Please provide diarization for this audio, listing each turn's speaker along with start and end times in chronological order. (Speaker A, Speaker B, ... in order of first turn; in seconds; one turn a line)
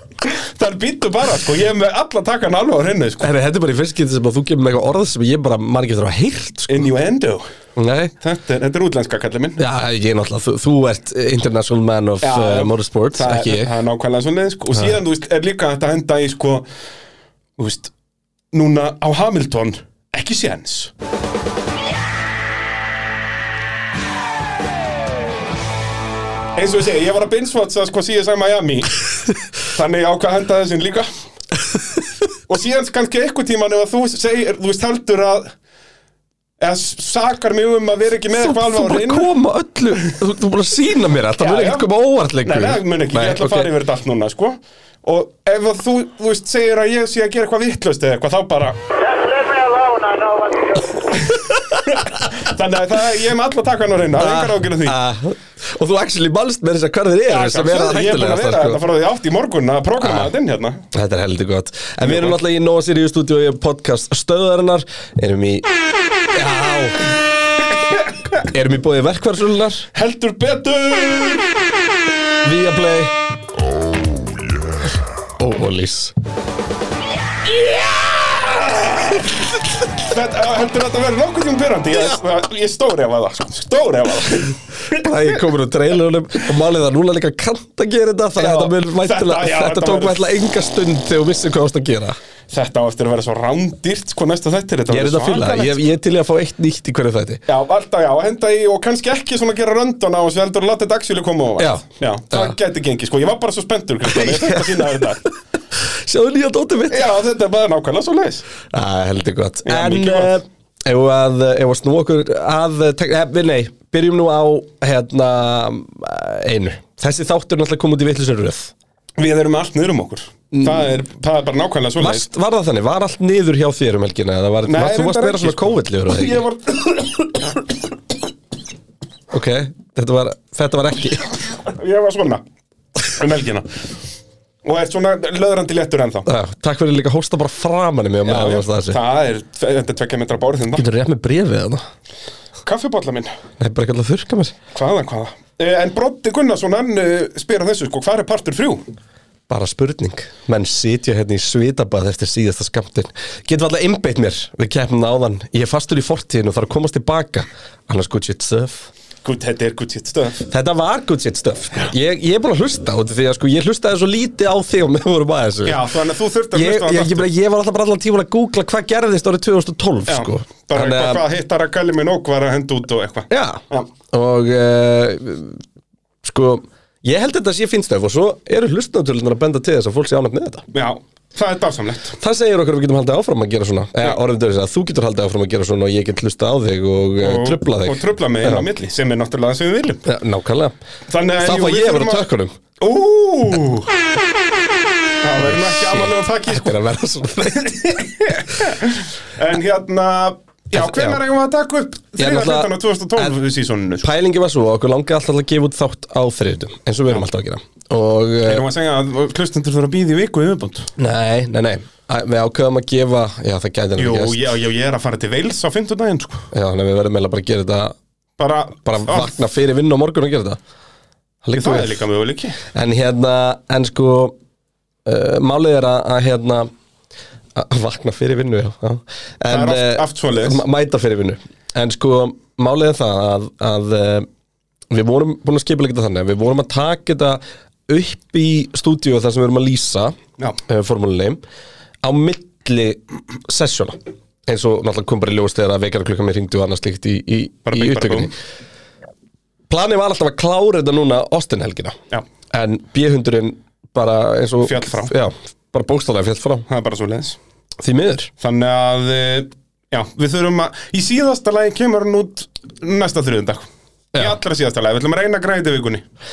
Speaker A: 0.2-3.3
Speaker B: 3.2-6.9
Speaker A: 6.7-7.4
Speaker B: 7.8-8.1
Speaker A: 8.2-9.6
Speaker B: 9.6-13.7
Speaker A: 12.2-16.6
Speaker A: 17.6-17.9
Speaker A: 18.5-20.9
Speaker A: 26.6-29.0
Speaker A: 29.6-31.1
Speaker A: 32.5-35.5
Speaker A: 36.6-39.3
Speaker B: 38.3-43.7
Speaker A: 41.4-41.9
Speaker A: 42.4-48.8
Speaker C: 49.0-51.3
Speaker A: 51.8-55.0
Speaker B: 54.2-58.8
Speaker A: 57.3-60.9
Speaker B: 60.0-60.3
Speaker B: 60.9-65.7
Speaker A: 62.0-62.4
Speaker B: 66.3-67.0
Speaker B: 68.4-69.9
Speaker A: 69.9-71.5
Speaker B: 72.4-73.1
Speaker B: 75.4-76.1
Speaker A: 77.7-79.3
Speaker A: 80.0-85.4
Speaker B: 84.9-92.2
Speaker A: 88.3-90.2
Speaker A: 92.5-95.8
Speaker B: 94.9-97.4
Speaker A: 97.5-105.2
Speaker B: 101.6-102.5
Speaker B: 104.0-105.0
Speaker B: 105.7-107.1
Speaker A: 106.9-108.5
Speaker B: 108.7-118.7
Speaker A: 109.6-110.4
Speaker A: 119.2-122.3
Speaker B: 120.5-120.9
Speaker B: 122.0-126.4
Speaker A: 124.6-127.6
Speaker B: 129.3-131.4
Speaker A: 131.6-132.4
Speaker A: 133.0-133.7
Speaker A: 134.6-136.3
Speaker B: 136.2-139.0
Speaker A: 138.2-140.9
Speaker B: 140.7-141.8
Speaker A: 142.6-143.3
Speaker B: 143.6-144.6
Speaker A: 144.7-148.8
Speaker B: 149.5-158.9
Speaker A: 159.2-160.4
Speaker B: 160.4-165.9
Speaker A: 165.6-167.3
Speaker B: 166.5-171.2
Speaker A: 170.1-173.9
Speaker B: 173.3-175.6
Speaker B: 176.2-180.7
Speaker A: 180.7-182.2
Speaker B: 182.2-188.7
Speaker A: 187.2-190.0
Speaker B: 190.0-190.8
Speaker A: 191.1-192.2
Speaker B: 191.4-192.5
Speaker A: 192.8-193.9
Speaker A: 195.2-196.7
Speaker B: 195.4-198.4
Speaker A: 197.8-204.1
Speaker B: 200.7-201.2
Speaker B: 202.2-203.4
Speaker B: 204.0-208.7
Speaker A: 208.4-210.9
Speaker B: 211.0-214.4
Speaker A: 214.0-216.5
Speaker B: 216.5-217.9
Speaker A: 218.4-219.3
Speaker B: 218.8-220.6
Speaker B: 221.4-222.0
Speaker A: 221.5-222.6
Speaker B: 222.7-224.3
Speaker B: 225.0-226.7
Speaker B: 227.5-234.3
Speaker A: 229.5-230.6
Speaker B: 234.9-241.4
Speaker B: 242.0-248.3
Speaker A: 247.7-248.3
Speaker B: 249.7-252.0
Speaker B: 252.5-256.6
Speaker A: 254.6-255.1
Speaker A: 256.7-257.4
Speaker B: 257.8-258.3
Speaker A: 258.4-266.0